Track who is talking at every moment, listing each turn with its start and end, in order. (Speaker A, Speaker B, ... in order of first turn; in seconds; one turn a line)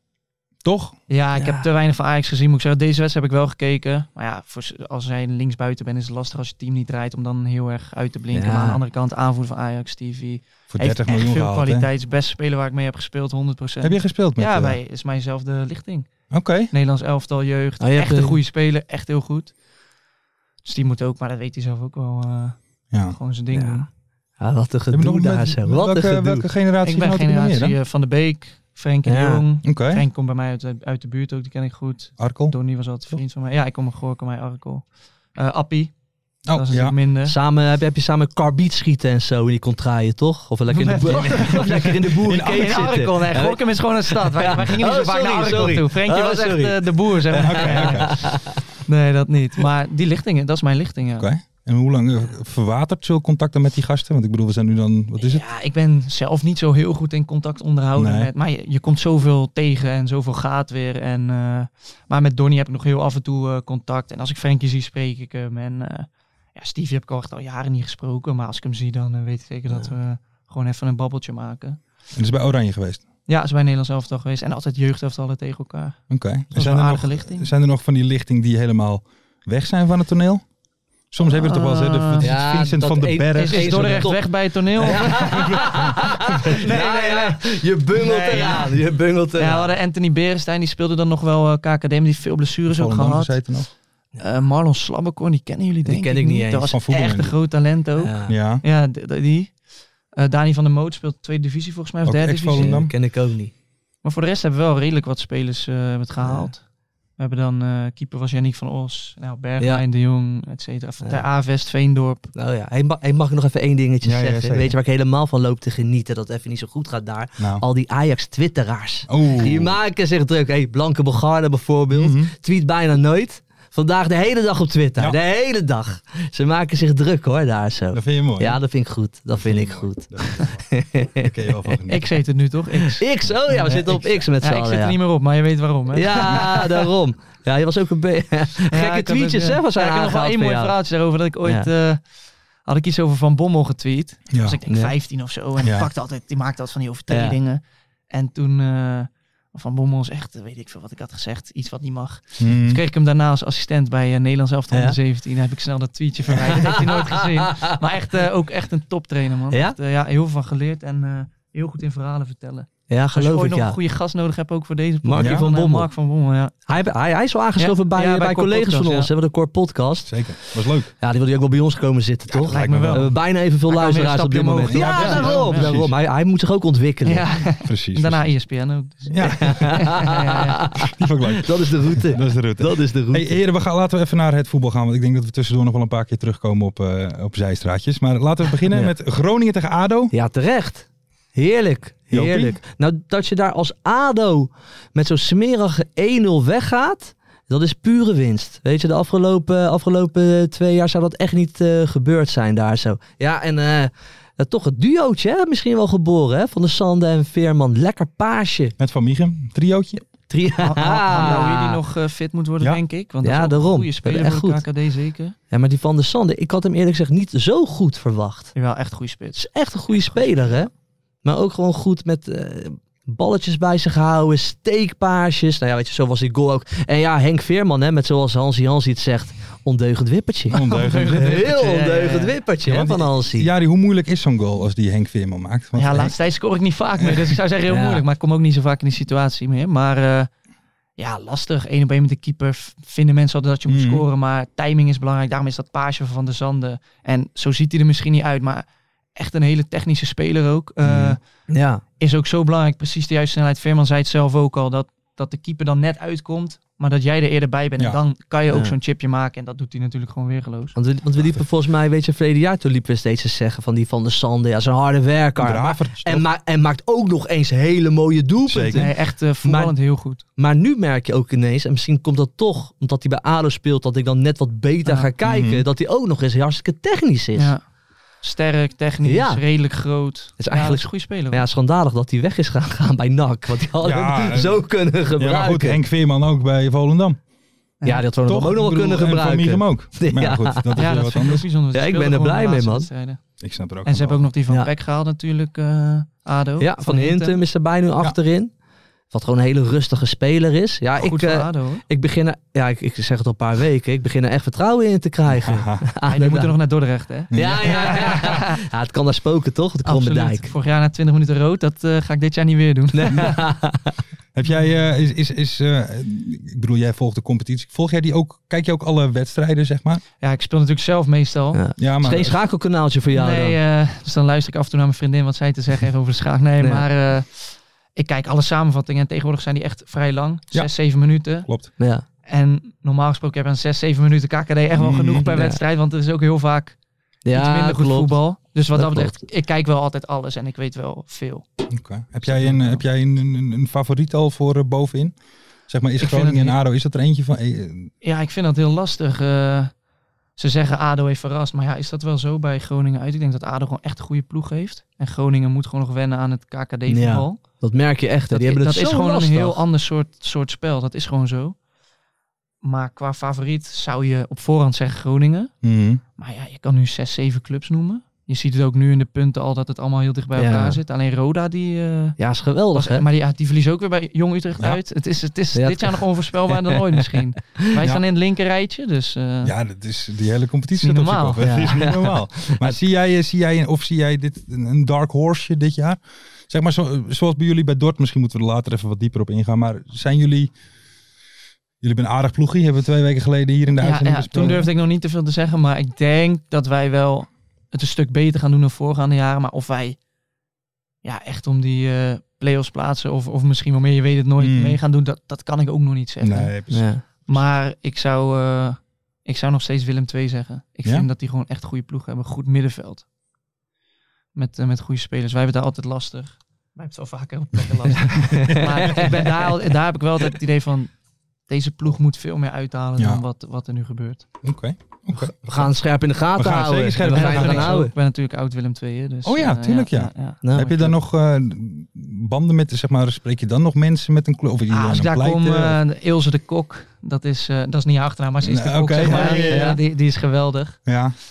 Speaker A: 0.6-0.9
Speaker B: 1.1-16.1
Speaker C: 1.4-1.6
Speaker C: 8.3-8.8
Speaker A: 10.7-11.9
Speaker A: 13.8-14.8
Speaker A: 16.3-16.7
Speaker B: 16.7-19.5
Speaker C: 17.8-18.4
Speaker B: 20.6-23.9
Speaker C: 23.5-23.8
Speaker C: 24.4-26.5
Speaker A: 24.9-27.8
Speaker B: 26.8-35.9
Speaker C: 29.1-29.4
Speaker A: 29.6-30.0
Speaker A: 32.2-32.5
Speaker A: 36.5-36.9
Speaker B: 36.5-37.3
Speaker C: 37.2-48.6
Speaker B: 40.7-48.2
Speaker A: 41.0-42.7
Speaker A: 47.3-48.4
Speaker B: 48.9-51.3
Speaker A: 51.2-55.4
Speaker B: 55.2-71.8
Speaker A: 58.0-58.3
Speaker A: 72.1-73.0
Speaker B: 73.3-76.0
Speaker A: 76.1-80.4
Speaker B: 76.5-77.5
Speaker A: 81.1-84.1
Speaker B: 81.2-82.3
Speaker C: 82.2-89.7
Speaker B: 83.3-87.4
Speaker A: 84.8-86.6
Speaker B: 88.0-88.7
Speaker B: 89.4-93.4
Speaker A: 92.7-93.7
Speaker B: 94.2-99.6
Speaker C: 95.8-96.8
Speaker A: 96.7-97.4
Speaker C: 98.0-98.3
Speaker A: 98.3-98.6
Speaker B: 100.1-102.7
Speaker A: 102.0-102.9
Speaker C: 102.5-103.5
Speaker B: 104.0-106.6
Speaker C: 106.2-106.5
Speaker B: 107.2-112.3
Speaker C: 112.3-131.8
Speaker A: 114.0-114.8
Speaker A: 117.4-117.6
Speaker A: 119.1-119.8
Speaker A: 121.9-122.3
Speaker A: 127.9-128.6
Speaker A: 129.4-130.6
Speaker A: 131.2-132.1
Speaker B: 131.9-136.7
Speaker C: 132.9-135.0
Speaker C: 135.9-140.7
Speaker B: 138.7-142.0
Speaker B: 142.6-166.5
Speaker A: 144.3-144.6
Speaker C: 144.7-144.9
Speaker A: 145.6-145.9
Speaker C: 147.1-147.3
Speaker A: 152.4-152.8
Speaker C: 156.3-157.7
Speaker C: 162.9-163.8
Speaker C: 165.0-165.9
Speaker A: 165.2-165.4
Speaker C: 166.7-170.1
Speaker B: 167.6-169.1
Speaker A: 170.0-170.9
Speaker C: 171.0-177.2
Speaker B: 172.3-173.1
Speaker A: 172.4-173.1
Speaker B: 173.7-175.8
Speaker A: 174.7-175.9
Speaker B: 177.0-180.6
Speaker A: 177.6-178.3
Speaker A: 179.1-180.0
Speaker C: 179.4-183.4
Speaker A: 180.8-190.1
Speaker C: 190.1-208.7
Speaker A: 192.1-192.6
Speaker A: 208.8-210.0
Speaker C: 210.3-211.8
Speaker B: 210.6-215.3
Speaker C: 213.2-214.6
Speaker C: 215.5-218.5
Speaker B: 218.6-220.6
Speaker C: 219.3-220.7
Speaker C: 221.2-233.5
Speaker A: 230.5-231.4
Speaker B: 230.5-232.3
Speaker A: 232.7-236.1
Speaker B: 235.7-240.3
Speaker A: 237.0-237.3
Speaker C: 237.7-238.0
Speaker B: 241.0-251.2
Speaker A: 243.7-244.0
Speaker A: 250.8-251.2
Speaker C: 251.5-251.8
Speaker B: 252.0-260.7
Speaker C: 260.8-269.7
Speaker A: 265.4-266.2
Speaker A: 268.4-268.9
Speaker B: 268.7-270.2
Speaker C: 270.4-277.5
Speaker A: 275.2-275.6
Speaker B: 278.2-281.4
Speaker C: 279.0-279.4
Speaker C: 280.4-285.8
Speaker A: 283.8-284.6
Speaker A: 285.2-287.2
Speaker C: 287.8-290.9
Speaker A: 288.2-291.4
Speaker B: 290.8-293.2
Speaker C: 291.7-292.9
Speaker A: 293.4-294.2
Speaker B: 293.8-297.4
Speaker C: 296.6-298.5
Speaker C: 299.1-306.5
Speaker B: 301.0-301.8
Speaker A: 305.3-305.9
Speaker B: 306.1-308.6
Speaker A: 307.3-308.4
Speaker C: 307.3-310.5
Speaker B: 309.9-313.4
Speaker C: 312.9-313.9
Speaker A: 314.3-320.0
Speaker B: 320.2-321.6
Speaker C: 321.5-323.6
Speaker A: 321.8-322.4
Speaker B: 323.1-331.5
Speaker A: 331.4-331.7
Speaker C: 331.8-332.0
Speaker B: 332.3-336.8
Speaker A: 334.8-335.3
Speaker C: 335.2-335.6
Speaker C: 337.2-338.1
Speaker B: 337.3-341.4
Speaker C: 338.7-339.2
Speaker A: 341.7-345.1
Speaker B: 342.2-342.8
Speaker A: 345.7-347.9
Speaker B: 346.0-346.6
Speaker B: 348.0-349.7
Speaker B: 350.4-357.4
Speaker C: 356.9-359.6
Speaker B: 358.3-361.6
Speaker B: 362.6-365.5
Speaker A: 365.6-366.0
Speaker B: 366.2-372.2
Speaker C: 370.4-370.8
Speaker C: 372.2-373.0
Speaker B: 372.7-379.5
Speaker C: 375.5-377.0
Speaker A: 379.4-390.5
Speaker B: 380.8-381.4
Speaker C: 381.4-382.8
Speaker A: 391.8-394.7
Speaker B: 393.8-400.0
Speaker B: 401.0-406.5
Speaker A: 404.4-404.8
Speaker A: 406.2-407.4
Speaker C: 406.7-407.0
Speaker B: 407.2-413.0
Speaker B: 414.3-420.9
Speaker C: 418.3-419.4
Speaker A: 418.6-419.0
Speaker B: 421.5-424.2
Speaker A: 423.0-423.2
Speaker A: 424.4-425.7
Speaker C: 425.1-427.9
Speaker A: 426.4-427.8
Speaker B: 427.1-430.4
Speaker A: 429.2-435.8
Speaker C: 430.4-430.9
Speaker B: 434.7-440.8
Speaker A: 438.4-439.8
Speaker C: 439.0-439.8
Speaker A: 440.9-441.1